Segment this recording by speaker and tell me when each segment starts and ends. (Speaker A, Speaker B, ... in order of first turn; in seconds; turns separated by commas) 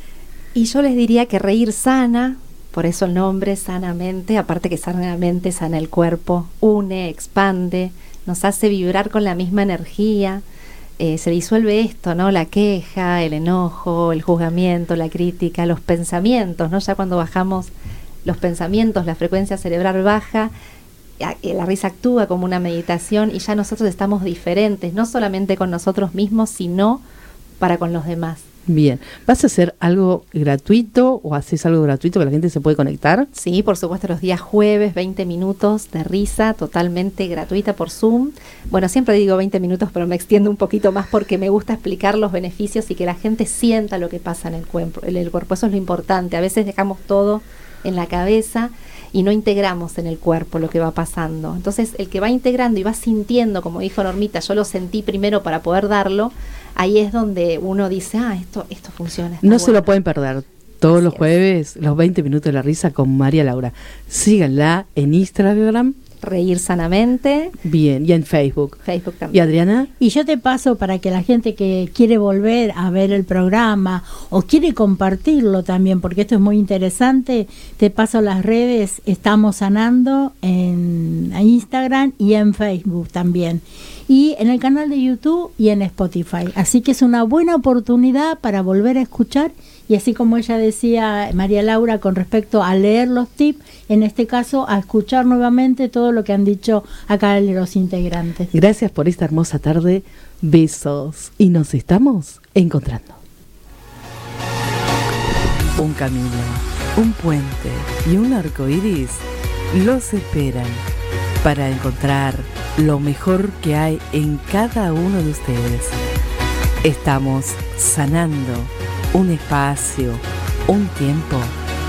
Speaker A: 0.5-10.4, Speaker A: 11.0-17.7, Speaker A: 18.2-20.5, Speaker A: 21.2-27.0, Speaker A: 27.6-28.4, Speaker B: 28.7-33.3, Speaker A: 33.3-59.9, Speaker B: 59.4-65.9, Speaker A: 60.9-61.3, Speaker A: 66.2-67.5, Speaker B: 67.6-68.8, Speaker A: 68.8-69.4, Speaker B: 69.3-69.9, Speaker C: 70.0-98.5, Speaker B: 98.5-103.2, Speaker B: 105.7-110.8, Speaker B: 111.4-115.9, Speaker B: 116.8-121.5